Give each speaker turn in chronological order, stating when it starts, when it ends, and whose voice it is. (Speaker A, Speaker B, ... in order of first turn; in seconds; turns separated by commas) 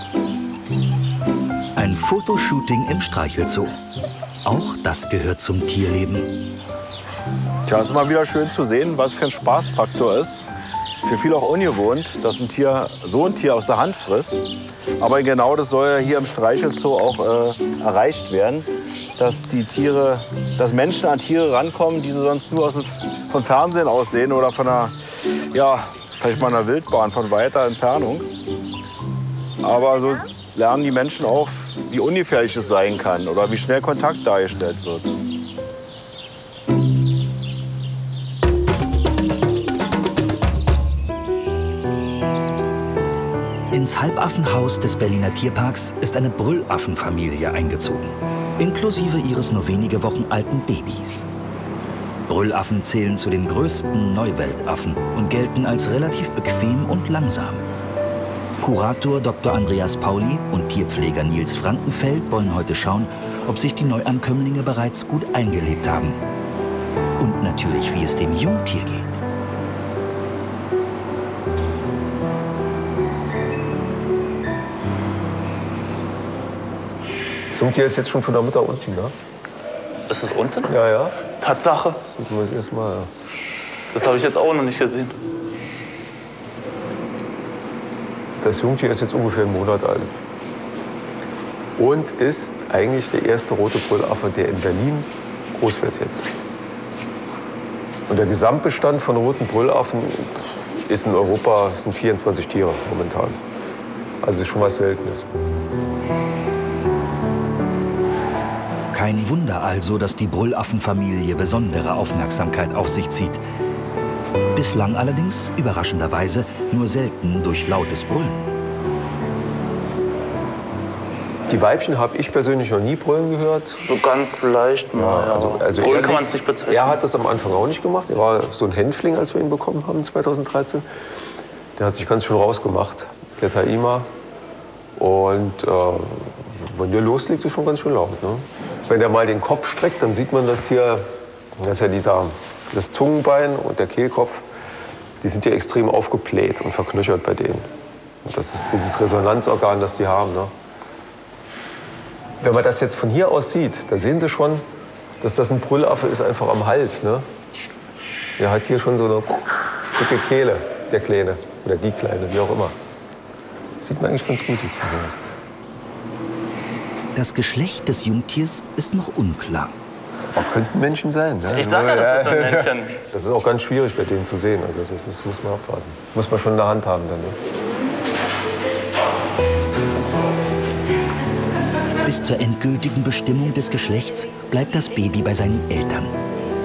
Speaker A: 1.8-3.8, Speaker A: 4.4-6.3, Speaker B: 7.7-10.5, Speaker B: 11.0-14.4, Speaker B: 15.0-28.3, Speaker B: 29.6-35.1, Speaker A: 43.7-51.3, Speaker A: 52.3-57.6, Speaker A: 58.6-66.2, Speaker A: 67.2-69.2, Speaker C: 77.5-79.1, Speaker D: 80.1-80.7, Speaker C: 80.7-81.1, Speaker D: 81.4-82.0, Speaker C: 82.1-83.1, Speaker D: 83.9-85.1, Speaker C: 88.4-90.2, Speaker C: 91.8-96.3, Speaker C: 98.1-103.4, Speaker C: 104.2-105.3, Speaker A: 108.9-113.4, Speaker A: 114.5-118.5, Speaker C: 121.5-123.8, Speaker D: 123.8-127.0, Speaker C: 125.0-130.9, Speaker C: 131.8-134.1, Speaker C: 135.0-144.4, Speaker C: 145.2-147.7, Speaker C: 148.2-150.5, Speaker C: 152.4-154.7, Speaker C: 155.2-157.3, Speaker C: 158.4-162.8, Speaker C: 163.8-165.2, Speaker A: 167.1-169.8, Speaker C: 170.3-177.4, Speaker D: 171.5-173.0, Speaker A: 182.0-186.2